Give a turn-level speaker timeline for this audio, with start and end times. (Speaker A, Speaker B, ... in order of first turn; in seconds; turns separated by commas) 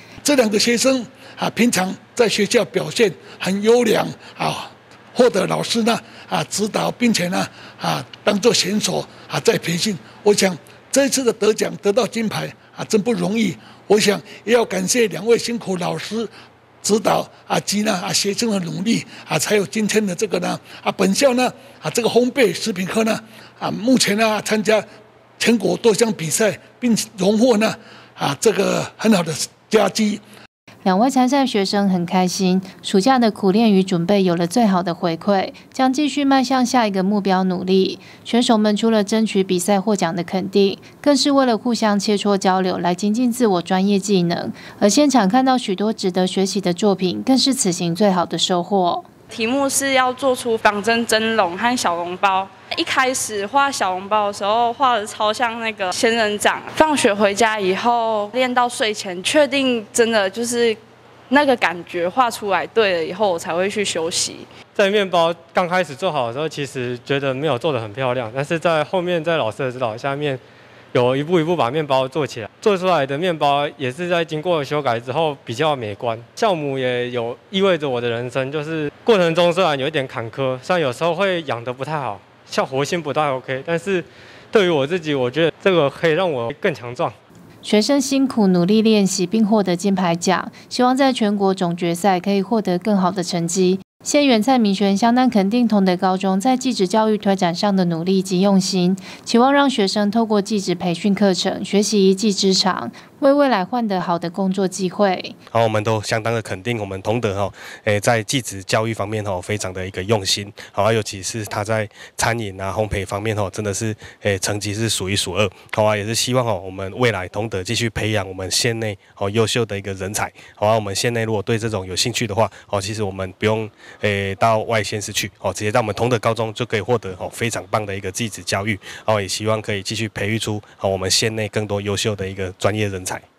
Speaker A: 0.2-16.3, Speaker A: 16.8-24.8, Speaker A: 25.4-30.2, Speaker B: 30.8-49.1, Speaker C: 49.3-60.8, Speaker C: 61.3-64.5, Speaker D: 64.7-70.4, Speaker D: 70.9-87.2, Speaker B: 87.6-105.3, Speaker E: 105.5-133.2